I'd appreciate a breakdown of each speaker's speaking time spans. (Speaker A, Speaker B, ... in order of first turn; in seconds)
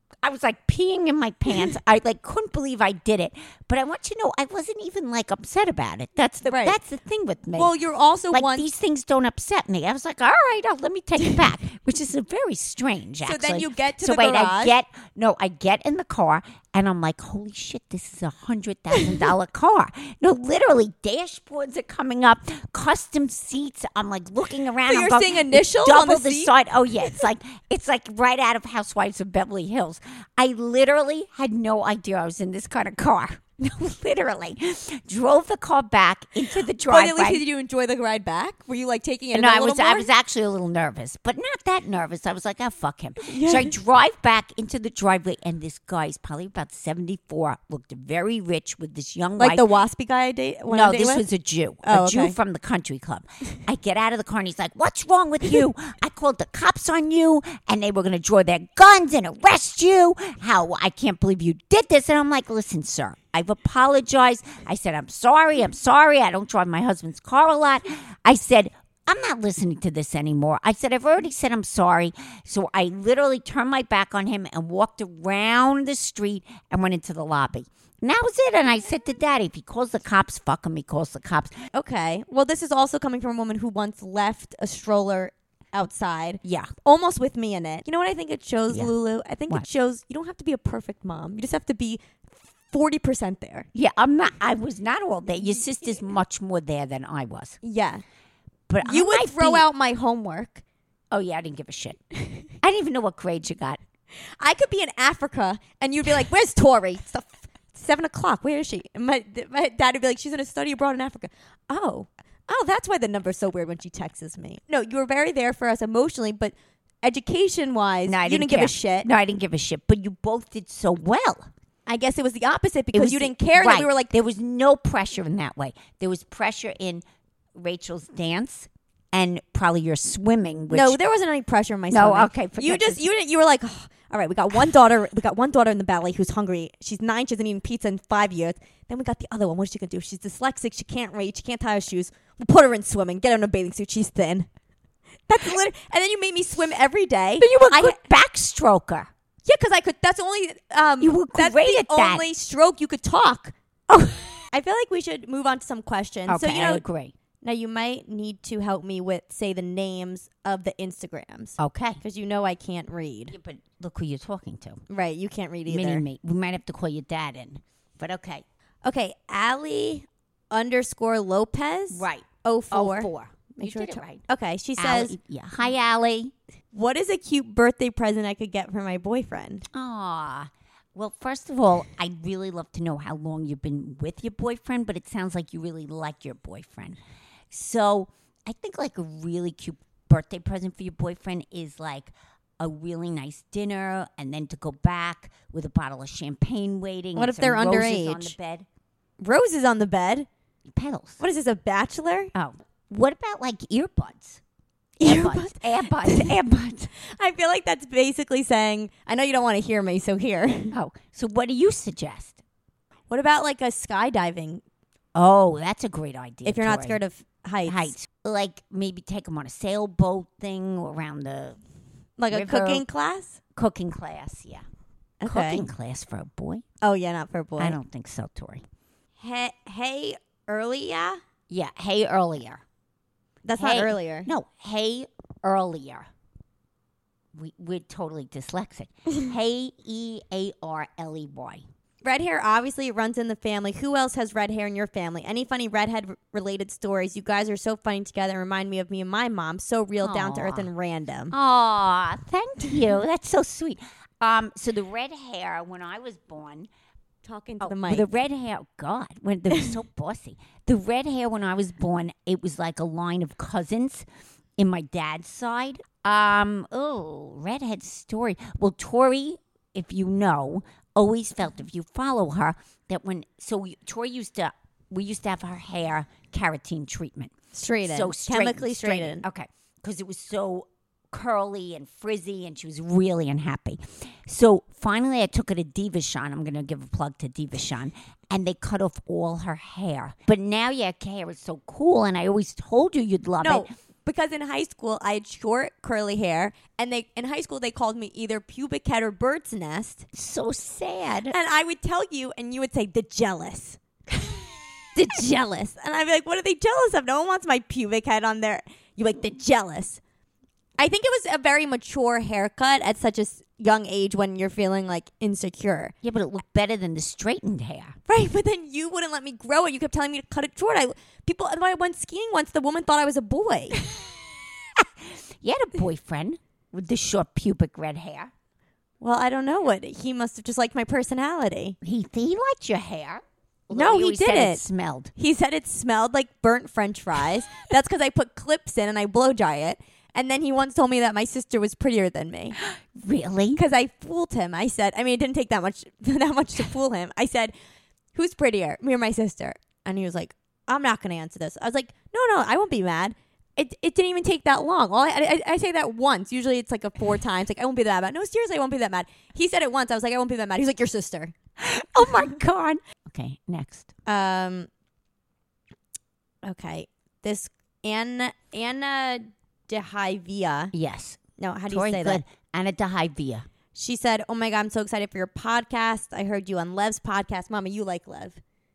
Speaker A: 0.2-7.7, 8.3-37.4, 39.3-49.7, 50.7-81.5, 86.4-86.7, 93.7-97.6, 98.7-99.6, 101.1-103.8, 118.0-121.5, 122.9-127.0, 127.5-131.0, 131.9-133.1, 147.4-149.1, 151.0-152.2, 153.9-154.4, 156.3-157.1, 161.6-162.0, 163.3-164.8, 165.7-168.4, 171.9-174.2, 174.8-176.3, 179.7-187.0, 187.5-198.7, 200.7-201.2, 202.3-204.4, 205.0-206.9, 210.7-212.4, 215.1-217.0, 217.7-221.6, 222.3-222.8, 223.6-224.6, 225.2-226.6, 227.6-228.6, 231.5-232.6, 233.6-236.1, 237.3-241.6, 250.0-250.7, 251.3-256.7, 257.6-264.0, 264.6-277.3, 277.8-293.6, 300.1-301.3, 316.0-318.0, 324.8-328.3, 331.8-335.1, 342.7-343.6, 361.6-363.9, 370.7-373.5
Speaker B: 6.5-6.8, 7.5-8.7, 13.2-14.7, 24.9-26.5, 36.8-40.1, 43.2-43.7, 49.4-51.2, 51.8-52.4, 81.7-92.0, 92.7-93.7, 97.6-98.0, 98.8-100.6, 104.4-119.1, 121.9-124.1, 130.7-144.5, 145.3-148.0, 149.4-153.5, 154.5-156.8, 157.4-163.3, 164.9-166.0, 168.8-175.2, 176.7-179.6, 197.2-198.3, 199.2-200.3, 201.2-202.3, 205.0-206.3, 207.0-210.7, 213.1-214.6, 216.4-217.9, 222.2-223.4, 225.2-225.6, 226.8-227.8, 229.2-231.2, 233.4-234.3, 242.0-251.3, 257.2-258.0, 277.5-279.2, 293.4-300.1, 301.3-304.3, 304.9-310.0, 310.8-315.9, 318.1-323.8, 329.0-331.8, 333.7-334.6, 335.1-342.6, 343.5-347.5, 348.1-361.3, 364.1-364.7, 366.4-370.7, 371.4-372.2, 373.7-378.4